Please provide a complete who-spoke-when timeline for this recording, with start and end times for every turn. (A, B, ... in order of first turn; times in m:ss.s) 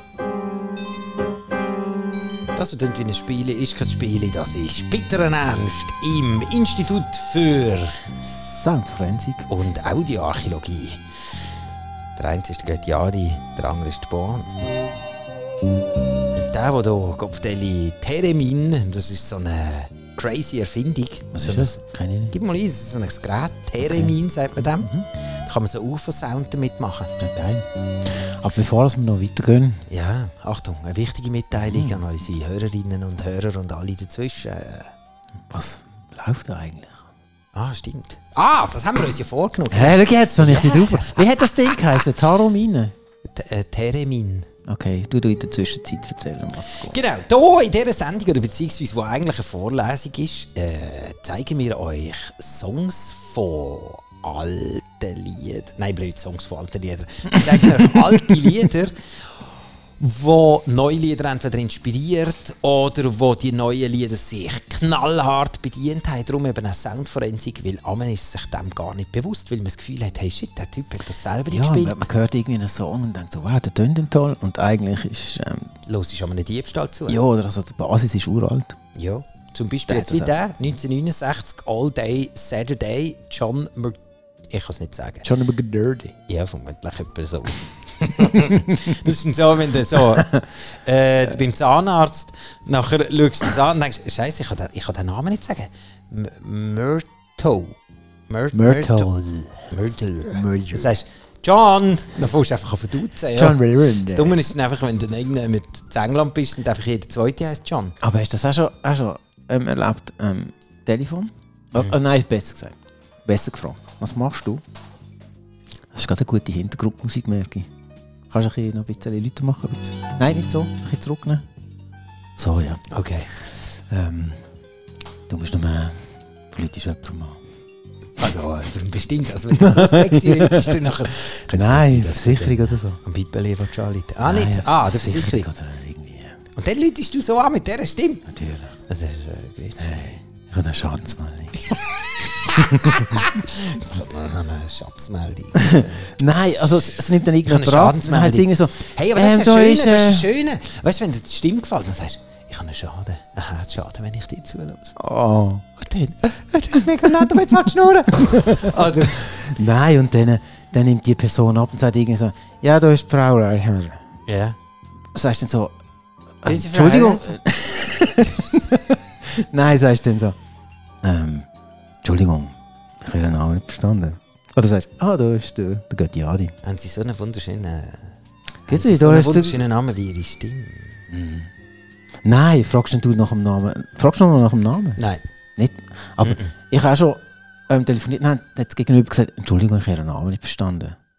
0:02.6-0:08.1 A
0:08.2-0:09.5 B
0:09.5-0:11.0 A
0:12.2-0:14.5 A
0:16.4-0:24.9 A
0:21.3-0:22.4 B
0:23.8-0:25.1 B
0:25.4-0:27.1 A
0:27.2-0:29.8 B
0:29.9-0:34.9 A
0:31.6-0:32.0 B
0:35.5-0:37.1 B
0:37.6-0:42.0 A
0:39.7-0:42.9 B
0:43.3-0:44.5 A
0:44.7-0:47.0 B
0:46.8-0:59.4 A
0:57.8-0:58.1 B
1:00.0-1:12.1 A
1:11.5-1:15.7 B
1:15.9-1:17.2 A
1:17.1-1:18.8 B
1:19.0-1:24.0 A
1:19.9-1:20.3 B
1:24.5-1:25.2 A
1:25.2-1:26.2 B
1:26.3-1:37.8 A
1:28.3-1:28.7 B
1:30.0-1:30.4 B
1:38.3-1:39.1 A
1:38.5-1:39.6 B
1:39.7-1:48.0 A
1:40.3-1:40.9 B
1:43.3-1:44.5 B
1:48.0-1:54.6 B
1:55.9-1:57.7 B
1:58.3-2:01.4 B
2:02.4-2:02.8 B
2:02.9-2:03.3 A
2:03.9-2:04.4 B
2:05.3-2:07.4 B
2:08.2-2:15.5 A
2:09.5-2:10.8 B
2:11.5-2:13.0 B
2:14.2-2:16.4 B
2:16.6-2:18.2 A
2:18.3-2:18.7 B
2:18.9-2:19.9 A
2:19.8-2:21.6 B
2:21.7-2:26.1 A
2:22.5-2:23.2 B
2:25.6-2:30.3 B
2:27.4-2:35.0 A
2:35.0-2:36.1 B
2:35.9-2:39.5 A
2:38.2-2:44.0 B
2:44.3-2:44.6 A
2:45.1-2:45.8 B
2:46.4-2:50.4 B
2:46.4-2:47.4 A
2:51.0-2:51.5 B
2:52.0-2:56.5 B
2:56.6-2:58.1 A
2:58.7-2:59.6 B
2:58.7-3:01.0 A
3:01.1-3:01.5 B
3:02.2-3:05.0 B
3:05.0-3:05.2 A
3:05.6-3:11.0 B
3:06.2-3:06.5 A